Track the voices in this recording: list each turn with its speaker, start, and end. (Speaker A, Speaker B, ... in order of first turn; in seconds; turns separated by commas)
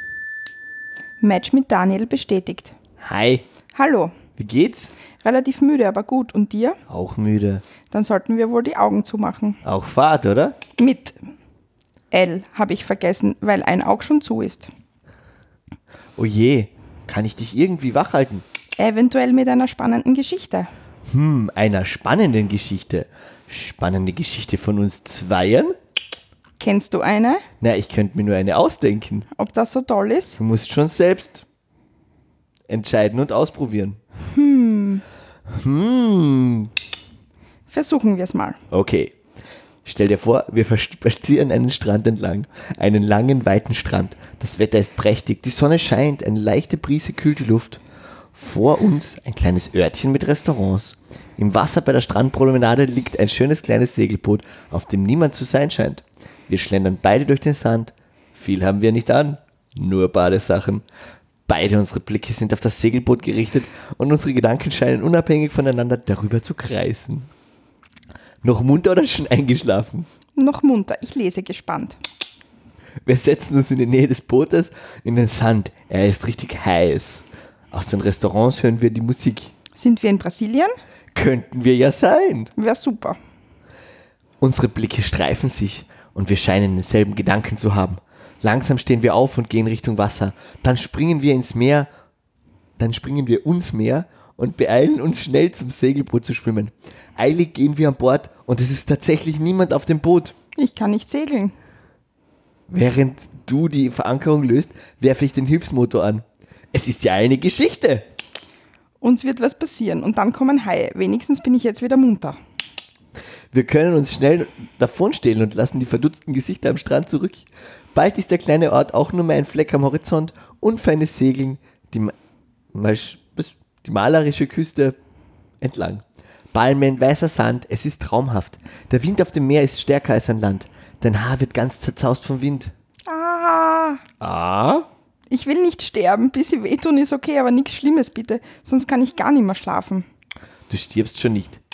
Speaker A: 1.2-2.8, Speaker B: 3.0-3.5, Speaker A: 3.8-4.1, Speaker B: 4.4-4.9, Speaker A: 5.2-6.8, Speaker B: 6.9-7.6, Speaker A: 7.9-9.6, Speaker B: 9.6-10.6, Speaker A: 10.8-11.2, Speaker A: 12.1-14.7, Speaker B: 16.2-18.4, Speaker A: 18.8-20.7, Speaker B: 21.1-25.7, Speaker A: 26.6-27.4, Speaker B: 27.6-29.3, Speaker A: 29.4-30.4, Speaker B: 30.4-31.4, Speaker B: 32.7-34.0, Speaker A: 34.3-35.0, Speaker B: 35.5-36.7, Speaker A: 37.7-38.6, Speaker B: 38.7-39.1, Speaker B: 39.9-47.8, Speaker B: 48.4-60.8, Speaker B: 61.5-67.3, Speaker B: 68.4-70.1, Speaker A: 70.4-72.0, Speaker B: 73.0-79.5, Speaker A: 79.8-80.7, Speaker B: 81.1-82.5, Speaker A: 82.6-83.2, Speaker B: 84.4-91.9, Speaker B: 92.8-100.4, Speaker A: 100.6-101.5, Speaker B: 102.7-108.0, Speaker A: 109.0-112.4, Speaker B: 113.5-122.1, Speaker B: 122.7-125.0, Speaker B: 125.6-132.7, Speaker A: 133.1-134.0, Speaker B: 134.2-134.9, Speaker A: 135.3-140.1, Speaker B: 140.7-141.6